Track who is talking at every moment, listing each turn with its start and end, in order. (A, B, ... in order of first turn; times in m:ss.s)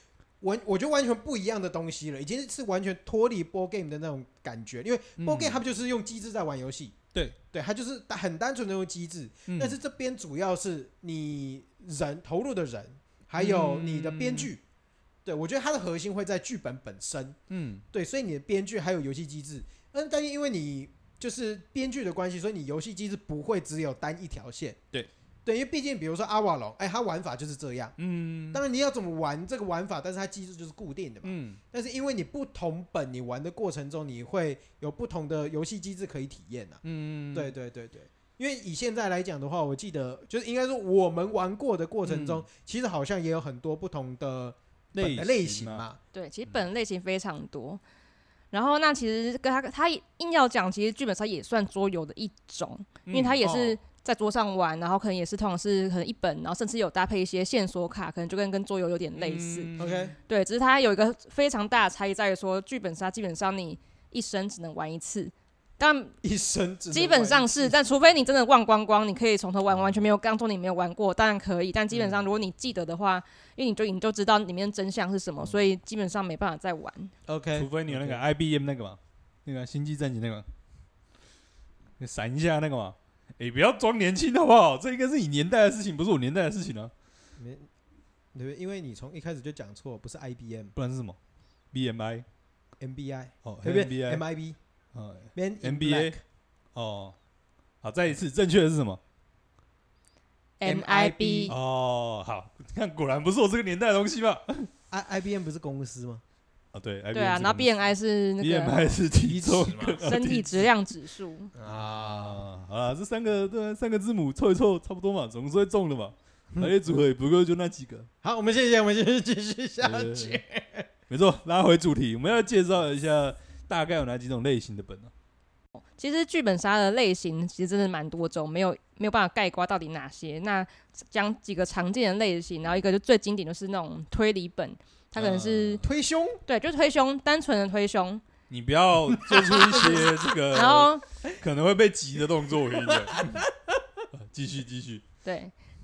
0:00.4-0:07.0 A
0:05.2-0:05.6 B
0:07.5-0:14.6 A
0:09.5-0:09.7 B
0:13.4-0:14.5 B
0:15.2-0:17.4 A
0:17.5-0:17.8 B
0:17.9-0:24.8 A
0:25.4-0:27.9 A
0:28.0-0:28.6 B
0:28.5-0:36.8 A
0:31.2-0:31.6 B
0:36.8-0:37.5 B
0:37.3-0:46.0 A
0:42.0-0:42.4 B
0:44.9-0:45.8 B
0:46.1-0:47.8 C
0:48.5-0:59.7 C
0:53.0-0:53.4 B
0:53.4-0:53.8 A
0:59.2-1:00.1 B
0:59.8-1:00.1 A
1:00.3-1:06.1 C
1:06.2-1:07.7 A
1:06.9-1:17.1 C
1:11.9-1:12.2 A
1:17.3-1:18.2 A
1:17.5-1:20.4 B
1:22.0-1:26.9 B
1:27.4-1:27.7 A
1:28.3-1:30.7 A
1:30.8-1:31.2 B
1:31.7-1:32.2 B
1:32.8-1:34.6 A
1:33.4-1:34.2 B
1:34.9-1:36.2 B
1:35.3-1:36.2 A
1:36.7-1:37.1 B
1:37.8-1:39.0 B
1:40.6-1:41.5 C
1:40.6-1:41.5 A
1:41.5-1:44.7 B
1:44.9-1:46.2 A
1:46.7-1:47.9 B
1:47.1-1:49.0 C
1:48.4-1:50.7 B
1:49.1-1:50.0 A
1:50.0-1:51.5 C
1:51.5-1:52.4 A
1:52.1-1:58.1 B
1:58.2-2:00.9 A
1:59.8-2:00.4 B
2:01.1-2:05.1 B
2:05.8-2:15.8 C
2:15.2-2:15.8 B
2:15.8-2:16.4 A
2:16.4-2:18.2 C
2:18.5-2:23.4 B
2:19.1-2:20.1 A
2:19.7-2:20.0 C
2:20.5-2:21.0 C
2:22.7-2:23.5 A
2:24.1-2:25.0 B
2:25.2-2:25.5 C